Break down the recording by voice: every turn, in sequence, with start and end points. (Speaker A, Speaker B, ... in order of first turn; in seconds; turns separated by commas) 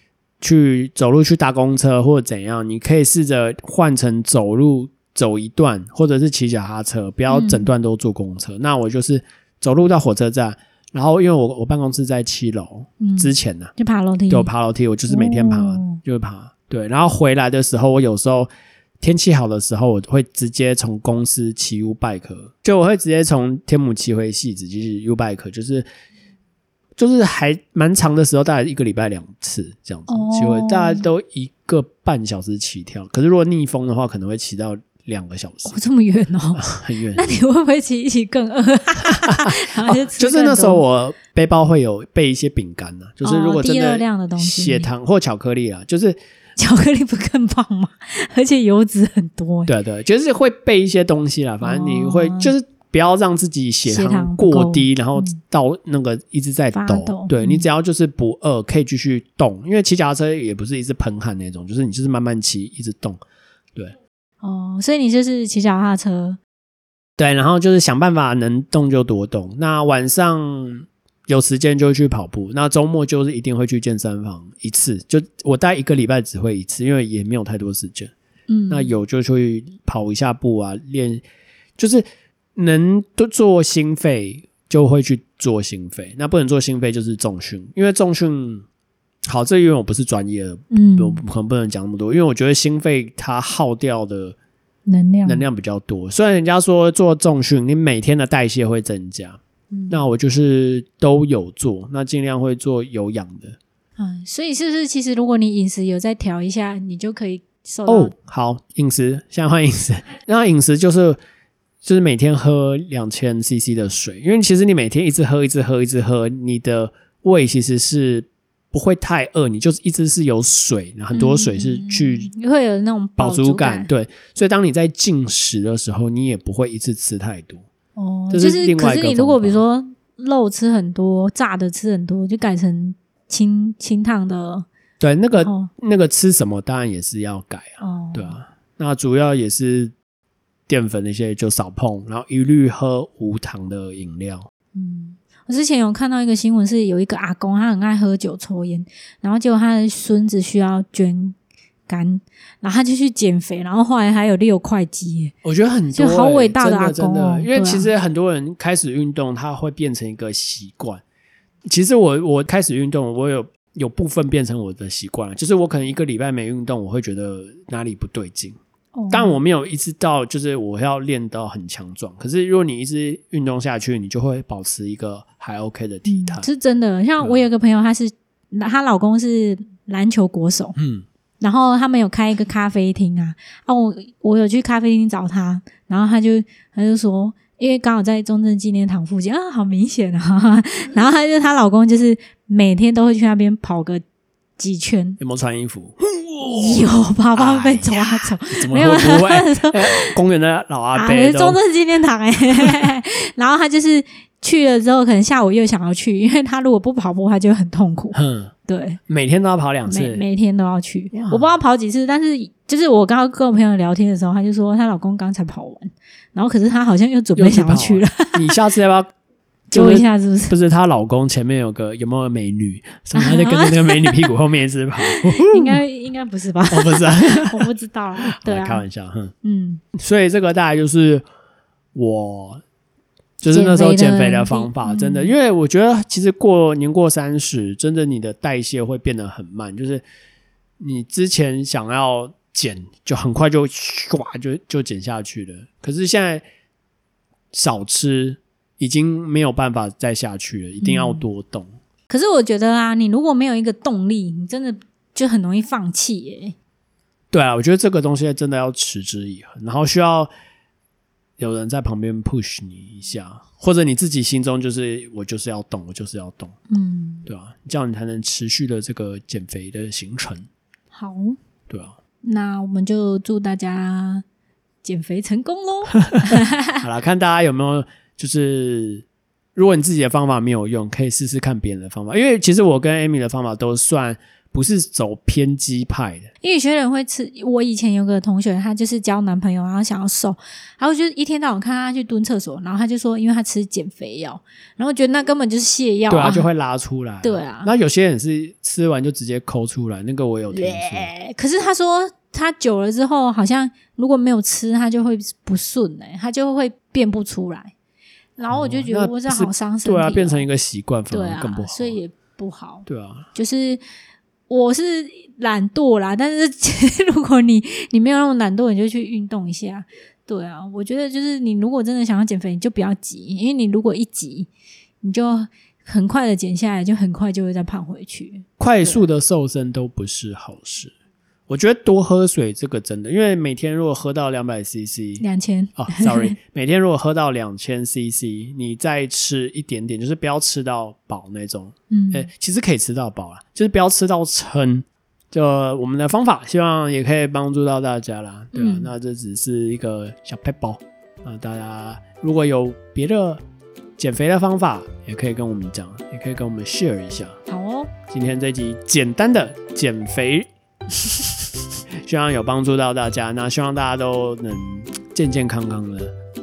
Speaker A: 0.4-13.7, Speaker B: 7.3-7.7, Speaker B: 13.0-14.5, Speaker A: 14.3-18.5, Speaker B: 15.1-16.0, Speaker A: 19.0-25.9, Speaker A: 27.0-35.8, Speaker B: 30.1-31.1, Speaker B: 35.6-40.8, Speaker A: 36.6-37.2, Speaker A: 39.2-46.2, Speaker B: 43.2-44.9, Speaker B: 46.6-49.7, Speaker A: 49.6-63.2, Speaker B: 51.6-52.5, Speaker B: 53.9-55.4, Speaker B: 56.7-57.6, Speaker B: 64.4-66.4, Speaker A: 67.2-78.1, Speaker B: 78.5-78.9, Speaker A: 78.7-81.2, Speaker A: 81.8-82.0, Speaker A: 82.5-88.7, Speaker A: 89.3-94.3, Speaker B: 90.7-91.2, Speaker B: 94.9-95.4, Speaker A: 95.2-99.4, Speaker B: 99.7-100.1, Speaker A: 99.9-103.6, Speaker B: 104.0-108.1, Speaker A: 107.9-111.2, Speaker A: 111.8-122.3, Speaker B: 121.1-123.9, Speaker A: 123.2-127.7, Speaker B: 128.0-134.7, Speaker A: 128.3-129.6, Speaker A: 135.0-139.9, Speaker B: 135.4-135.7, Speaker B: 137.8-138.4, Speaker A: 140.7-144.5, Speaker B: 144.7-151.3, Speaker B: 151.9-155.3, Speaker A: 155.4-161.0, Speaker B: 155.9-157.9, Speaker A: 161.7-168.6, Speaker B: 168.9-169.4, Speaker A: 169.1-176.5, Speaker B: 176.1-180.8, Speaker A: 180.8-181.1, Speaker B: 181.4-194.0, Speaker B: 194.6-195.2, Speaker A: 195.2-196.8, Speaker B: 196.6-200.2, Speaker A: 197.3-201.6, Speaker B: 200.9-209.0, Speaker A: 208.1-208.5, Speaker A: 209.1-210.2, Speaker B: 209.9-218.5, Speaker A: 211.1-211.6, Speaker A: 217.3-219.1, Speaker B: 219.7-220.5, Speaker A: 219.7-225.8, Speaker B: 223.1-224.3, Speaker B: 225.0-228.8, Speaker A: 226.7-227.7, Speaker A: 228.2-229.3, Speaker B: 229.4-229.8, Speaker A: 229.9-231.2, Speaker A: 231.9-232.6, Speaker A: 233.4-240.0, Speaker B: 233.5-235.3, Speaker A: 240.8-246.4, Speaker A: 247.5-251.7, Speaker B: 250.8-251.2, Speaker B: 252.1-256.6, Speaker A: 257.3-260.3, Speaker A: 261.4-266.5, Speaker B: 266.7-267.3, Speaker A: 267.2-270.4, Speaker B: 270.9-271.4, Speaker A: 271.7-271.9, Speaker B: 272.2-274.2, Speaker B: 274.8-276.8, Speaker A: 276.8-286.3, Speaker B: 286.4-296.4, Speaker A: 296.1-301.1, Speaker B: 297.2-297.7, Speaker B: 300.5-307.7, Speaker B: 308.4-310.4, Speaker A: 308.5-312.0, Speaker B: 311.1-313.8, Speaker A: 312.9-313.3, Speaker B: 314.5-324.5, Speaker B: 325.0-329.0, Speaker A: 328.6-330.9, Speaker A: 331.5-335.2, Speaker B: 335.2-336.4, Speaker A: 335.8-353.4, Speaker B: 341.9-342.3, Speaker B: 348.5-348.9, Speaker A: 354.0-357.4, Speaker B: 357.5-357.9, Speaker A: 358.1-360.5, Speaker A: 362.0-366.1